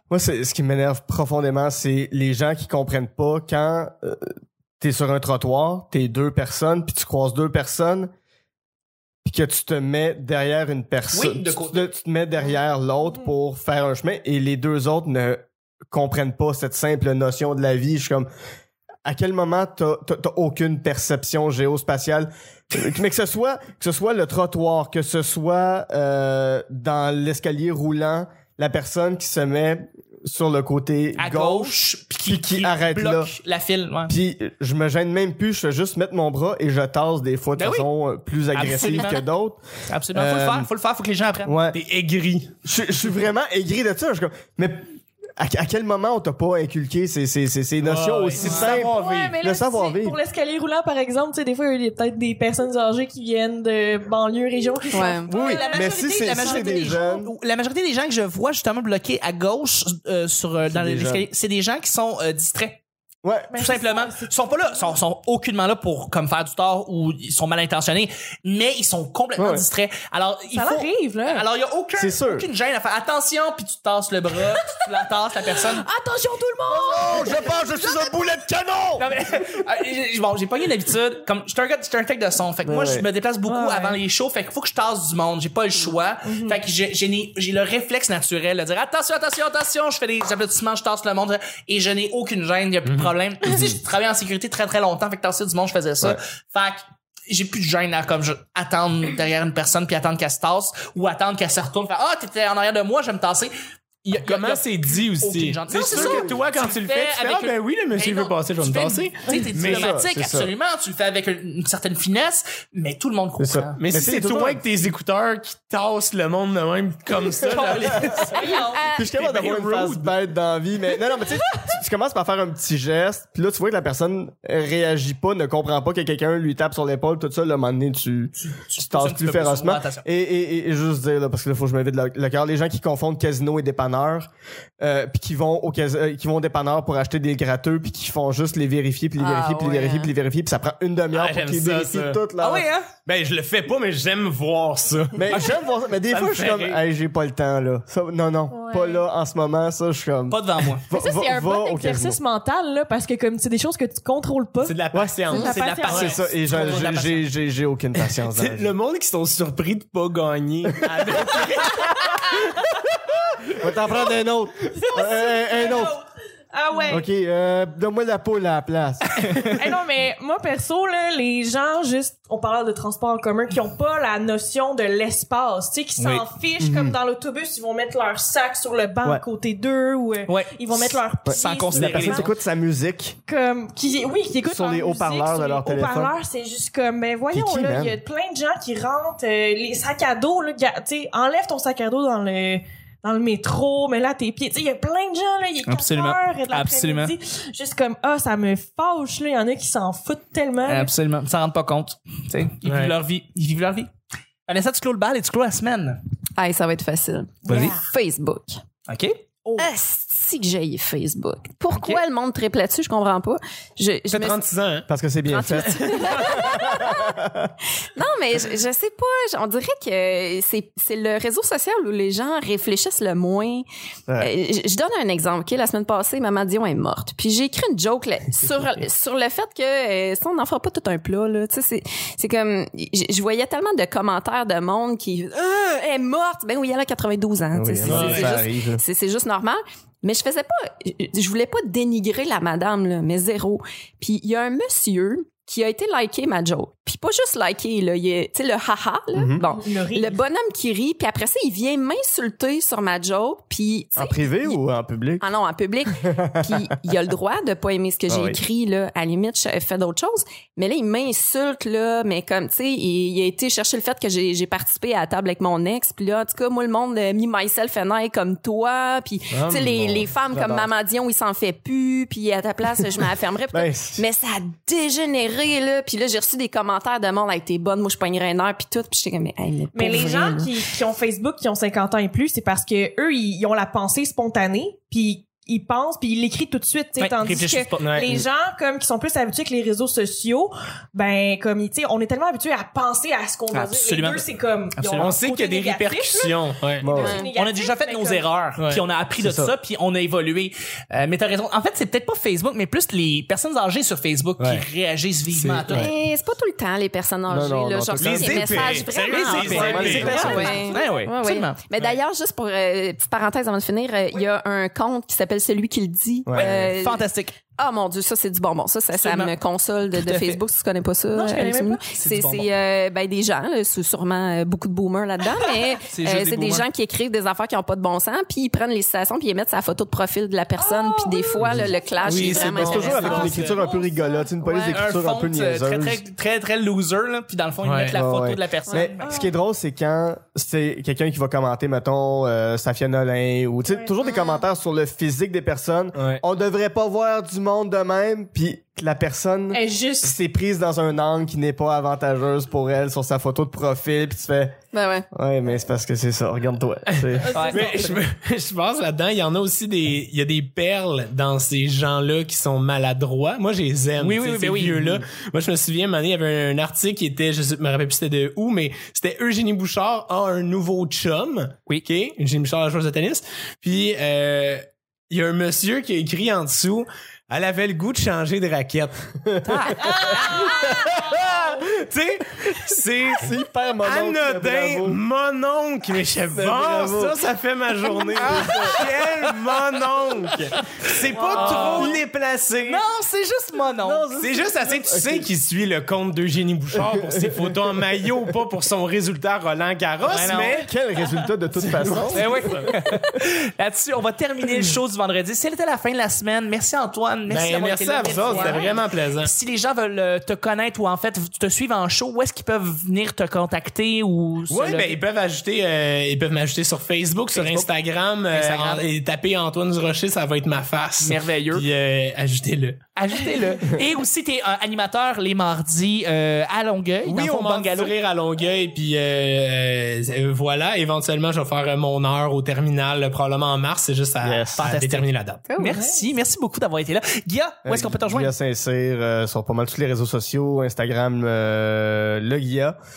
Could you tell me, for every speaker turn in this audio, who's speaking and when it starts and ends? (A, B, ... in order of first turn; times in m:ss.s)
0:00.1-0:04.3 A
0:04.8-0:08.1 A
0:09.2-0:18.3 A
0:11.1-0:11.9 B
0:19.0-0:33.3 A
0:31.2-0:34.2 B
0:34.1-0:39.6 A
0:37.6-0:37.9 B
0:38.5-0:39.2 B
0:39.9-0:41.6 B
0:40.1-0:40.7 A
0:41.4-0:41.8 A
0:41.7-0:42.5 C
0:42.6-0:50.2 A
0:47.8-0:49.4 C
0:48.4-0:57.0 D
0:54.9-0:55.3 E
0:55.3-1:02.8 B
0:55.3-0:57.3 A
1:00.7-1:01.3 A
1:03.2-1:03.5 A
1:03.5-1:04.9 D
1:03.5-1:15.8 B
1:09.4-1:09.6 A
1:10.5-1:11.4 D
1:12.0-1:12.5 A
1:15.7-1:17.4 D
1:16.7-1:19.1 A
1:19.0-1:43.5 B
1:22.6-1:23.0 A
1:23.4-1:24.0 D
1:26.2-1:26.6 D
1:32.8-1:33.8 C
1:44.0-1:53.8 B
1:44.1-1:49.9 C
1:45.9-1:46.3 A
1:49.6-1:50.5 A
1:53.4-1:54.6 A
1:53.8-1:58.3 C
1:57.4-1:58.8 B
1:58.3-1:59.1 E
1:58.9-2:14.3 A
1:59.0-2:00.1 C
2:08.4-2:10.0 B
2:14.8-2:22.7 A
2:19.2-2:20.1 E
2:21.1-2:22.2 C
2:22.4-2:22.9 B
2:23.0-2:25.6 C
2:25.1-2:32.2 A
2:26.1-2:26.8 C
2:28.5-2:29.0 D
2:30.3-2:30.8 B
2:30.9-2:36.2 D
2:34.6-2:36.1 C
2:35.3-2:37.3 B
2:35.9-2:38.7 A
2:38.2-2:42.4 C
2:43.5-2:46.0 A
2:44.7-2:47.0 D
2:46.9-2:49.6 A
2:49.5-3:02.3 D
2:56.0-2:56.2 B
2:56.6-2:57.0 A
3:00.3-3:02.3 B
3:01.2-3:03.2 A
3:03.3-3:20.9 D
3:04.5-3:06.1 A
3:07.3-3:08.0 A
3:15.6-3:17.1 B
3:20.6-3:23.9 B
3:22.6-3:22.9 C
3:24.5-3:26.0 B
3:26.4-3:28.6 E
3:27.5-3:27.9 D
3:28.9-3:29.2 B
3:29.4-3:29.7 D
3:29.6-3:34.4 E
3:31.7-3:32.0 B
3:34.1-3:34.9 C
3:34.9-3:37.5 A
3:35.2-3:37.2 E
3:35.8-3:36.4 C
3:37.8-3:43.6 E
3:44.2-4:14.6 E
3:57.5-3:58.8 A
3:57.8-3:58.4 C
4:09.2-4:09.4 A
4:09.4-4:10.2 D
4:14.0-4:15.2 A
4:15.2-4:40.5 E
4:15.9-4:16.7 A
4:18.1-4:18.4 A
4:29.3-4:30.0 C
4:29.9-4:30.7 A
4:33.5-4:34.0 A
4:39.7-4:58.2 D
4:47.0-4:47.8 B
4:47.8-4:48.1 C
4:53.5-4:54.2 B
4:54.8-4:55.1 B
4:55.0-4:56.9 C
4:56.8-4:57.2 A
4:56.9-4:57.3 E
4:57.4-5:05.9 B
4:58.6-4:58.8 C
4:59.2-4:59.5 A
5:05.3-5:05.8 C
5:05.7-5:17.0 E
5:07.3-5:08.8 A
5:08.0-5:10.5 C
5:08.6-5:11.6 B
5:09.4-5:10.6 A
5:09.9-5:10.8 D
5:16.2-5:16.8 A
5:16.4-5:17.4 B
5:17.6-5:33.2 E
5:18.9-5:19.3 B
5:19.9-5:20.4 B
5:21.1-5:21.8 D
5:21.9-5:22.5 B
5:25.8-5:26.7 B
5:30.6-5:31.5 D
5:31.4-5:33.5 C
5:32.1-5:33.7 B
5:32.3-5:36.0 A
5:33.0-5:34.3 D
5:34.4-5:39.0 B
5:37.6-5:38.0 C
5:37.9-5:54.6 A
5:39.0-5:39.3 D
5:44.0-5:44.3 E
5:46.0-5:46.2 C
5:49.5-5:50.1 D
5:54.7-5:55.0 E
5:55.1-5:57.3 A
5:56.9-6:19.1 C
5:57.2-5:58.0 D
5:57.3-5:57.9 B
6:04.0-6:05.0 B
6:19.2-6:21.3 A
6:19.4-6:20.7 B
6:19.9-6:21.4 D
6:20.2-6:32.8 C
6:23.0-6:25.0 A
6:26.3-6:27.2 A
6:28.0-6:28.8 A
6:28.2-6:29.4 B
6:30.6-6:32.0 B
6:31.3-6:31.9 A
6:31.5-6:31.9 D
6:32.6-6:34.1 B
6:33.8-6:35.3 A
6:34.1-6:40.7 C
6:36.8-6:37.6 A
6:40.0-6:40.6 B
6:40.4-6:43.1 A
6:41.5-6:42.7 C
6:42.1-6:55.0 B
6:47.3-6:49.3 C
6:48.2-6:48.6 D
6:54.5-7:02.8 C
6:57.3-6:57.7 B
6:58.2-6:58.9 B
7:01.0-7:01.7 B
7:03.0-7:07.9 B
7:07.0-7:15.4 C
7:14.2-7:14.6 A
7:14.6-7:18.3 B
7:15.5-7:15.8 E
7:15.7-7:16.0 D
7:17.6-7:22.8 A